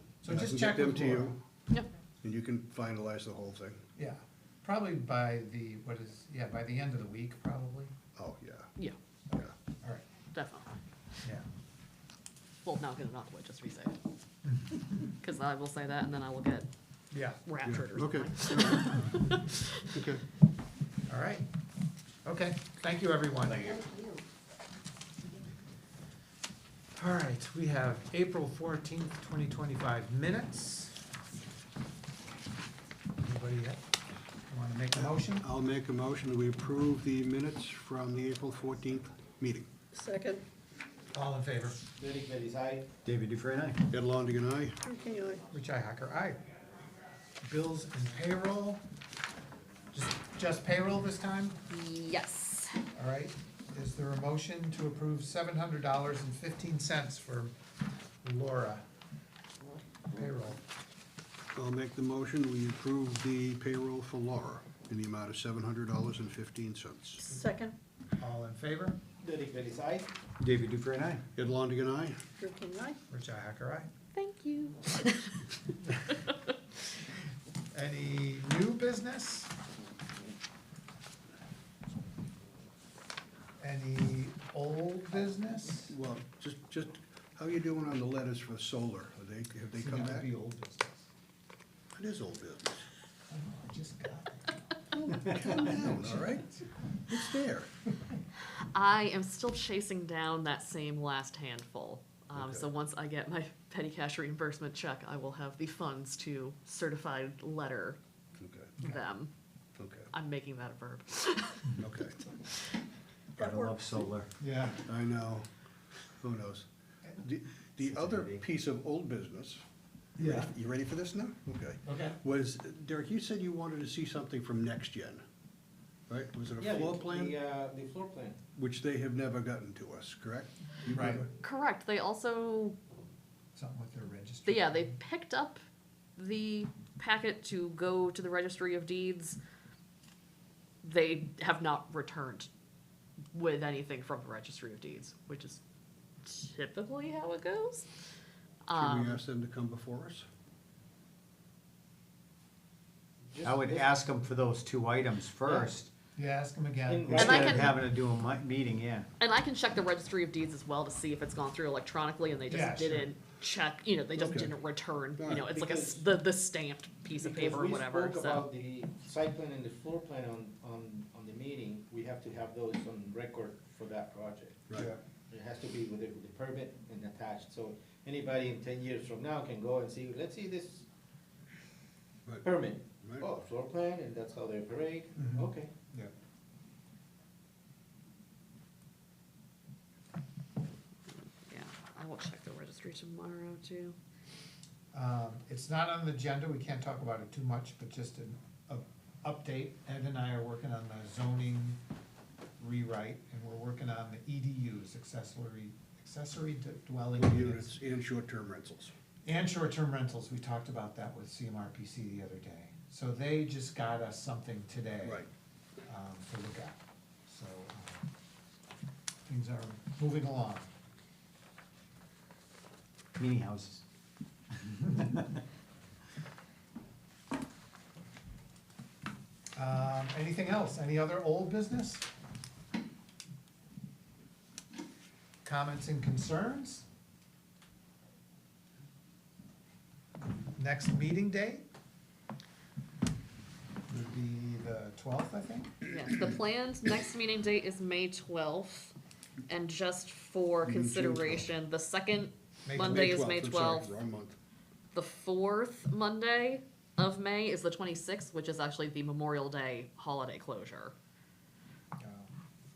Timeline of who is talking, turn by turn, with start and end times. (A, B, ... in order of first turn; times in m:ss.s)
0:00.2-0:01.3 A
0:00.3-0:01.4 B
0:02.2-0:03.8 B
0:04.0-0:07.9 A
0:08.2-0:08.7 B
0:09.3-0:10.0 A
0:10.3-0:10.6 C
0:12.6-0:14.0 C
0:14.4-0:14.8 A
0:15.2-0:16.7 C
0:17.1-0:17.4 A
0:17.4-0:20.0 C
0:17.6-0:19.1 B
0:19.9-0:20.2 B
0:21.1-0:21.4 A
0:22.2-0:23.8 A
0:23.5-0:23.9 D
0:27.0-0:31.0 A
0:33.2-0:33.8 A
0:34.5-0:35.4 A
0:34.9-0:39.7 B
0:39.9-0:40.4 E
0:41.1-0:41.8 A
0:42.0-0:42.9 F
0:43.0-0:43.8 D
0:43.9-0:44.8 B
0:44.8-0:45.4 E
0:45.5-0:46.4 A
0:47.4-0:48.8 A
0:49.9-0:51.6 A
0:51.7-0:52.8 C
0:52.9-0:57.5 A
0:58.2-0:58.8 A
1:00.1-1:00.6 A
1:01.5-1:07.3 B
1:07.2-1:07.8 E
1:08.2-1:09.0 A
1:09.2-1:10.1 F
1:10.4-1:11.2 D
1:11.4-1:12.2 B
1:12.4-1:13.0 E
1:13.1-1:13.9 A
1:14.1-1:15.5 C
1:17.7-1:19.5 A
1:23.6-1:25.9 A
1:25.9-1:30.3 B
1:29.7-1:31.1 A
1:31.9-1:32.8 B
1:33.3-1:34.6 A
1:35.0-1:36.5 B
1:35.1-1:36.7 A
1:37.1-1:37.7 B
1:38.7-1:48.0 C
1:42.3-1:42.7 B
1:48.4-1:48.7 B
1:48.8-1:49.3 C
1:49.8-1:50.1 B
1:50.1-1:51.9 C
1:51.8-1:52.2 B
1:53.4-1:54.0 E
1:53.4-1:54.3 D
1:54.4-1:54.8 A
1:54.8-1:55.5 B
1:56.1-1:56.6 B
1:57.2-1:59.6 B
1:57.8-1:58.4 D
2:00.2-2:00.5 A
2:00.2-2:05.2 B
2:01.8-2:02.2 A
2:06.1-2:07.4 B
2:06.6-2:08.4 F
2:08.5-2:11.3 B
2:10.9-2:11.3 A
2:11.4-2:12.8 C
2:13.5-2:15.0 A
2:14.4-2:15.6 C
2:16.2-2:19.4 C
2:20.8-2:22.5 C
2:23.3-2:25.6 C
2:26.2-2:27.9 C
2:28.6-2:29.2 C
2:28.7-2:30.2 B
2:33.3-2:33.9 F
2:33.4-2:35.9 D
2:36.2-2:37.6 A
2:36.9-2:37.7 F
2:37.1-2:39.1 D
2:37.1-2:37.7 C
2:39.2-2:48.4 C
2:42.5-2:43.1 A
2:44.1-2:44.6 B
2:45.2-2:45.5 B
2:45.5-2:46.0 F
2:47.2-3:00.8 F
3:02.4-3:05.7 F
3:03.0-3:03.4 B
3:05.2-3:06.1 A
3:11.1-3:14.0 C
3:14.9-3:21.8 A
3:22.6-3:27.8 A
3:27.2-3:28.9 B
3:29.2-3:35.2 A
3:35.0-3:35.3 B
3:35.9-3:38.0 A
3:39.2-3:40.7 A
3:43.2-3:43.8 D
3:44.5-3:45.4 D
3:49.6-3:52.0 A
3:55.4-3:56.8 A
4:00.5-4:01.7 A
4:03.9-4:05.8 A
4:05.8-4:08.9 C
4:09.5-4:13.9 C
4:10.6-4:11.5 B
4:12.6-4:13.1 A
4:12.7-4:14.4 B
4:14.9-4:20.9 C
4:22.0-4:22.3 A